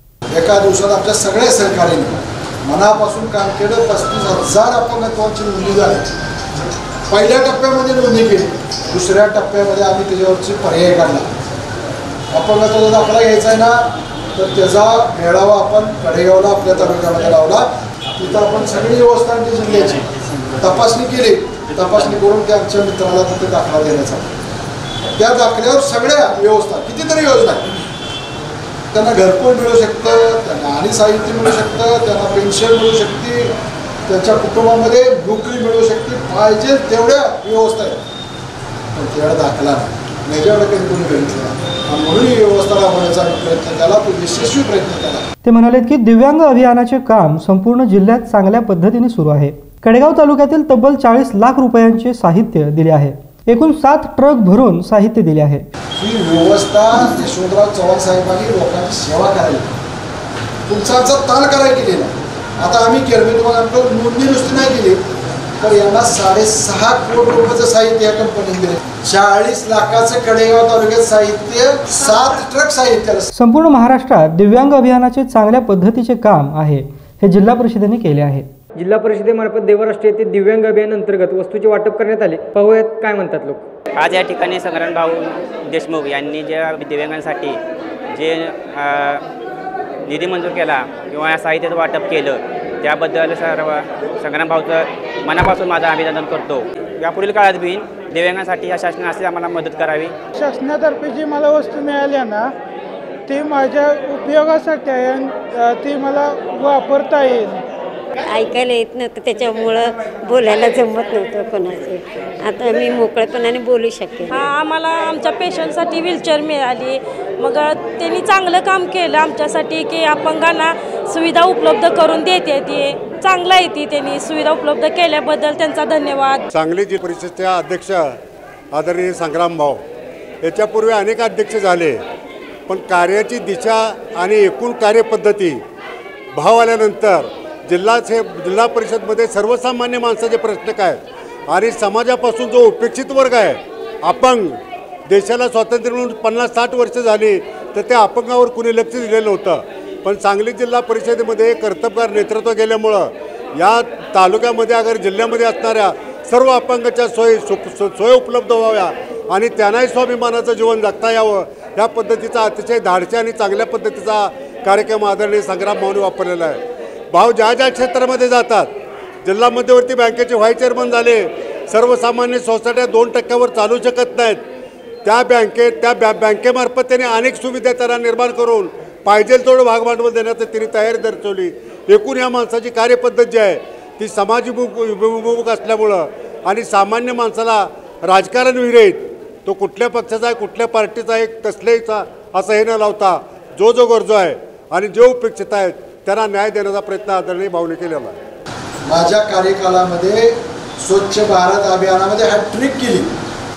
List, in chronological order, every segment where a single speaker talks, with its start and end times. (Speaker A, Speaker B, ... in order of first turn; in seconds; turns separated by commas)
Speaker A: 0.3-6.1, Speaker A: 7.1-11.3, Speaker A: 12.3-24.3, Speaker A: 25.1-27.7, Speaker A: 28.9-33.5, Speaker A: 34.1-38.0, Speaker A: 38.9-45.2, Speaker B: 45.4-55.6, Speaker A: 56.0-59.7, Speaker A: 60.7-65.0, Speaker A: 65.6-73.3, Speaker B: 73.3-78.5, Speaker C: 78.8-83.6, Speaker D: 84.0-87.5, Speaker D: 88.2-89.2, Speaker D: 90.1-100.1, Speaker E: 100.4-102.5, Speaker E: 103.3-107.6, Speaker F: 108.2-114.5, Speaker G: 114.3-126.4, Speaker H: 126.5-128.1, Speaker H: 128.7-129.8, Speaker H: 130.4-132.0, Speaker H: 132.7-135.6, Speaker H: 136.3-166.6, Speaker H: 167.1-168.7, Speaker H: 169.2-174.4, Speaker H: 175.0-198.2, Speaker A: 198.9-203.1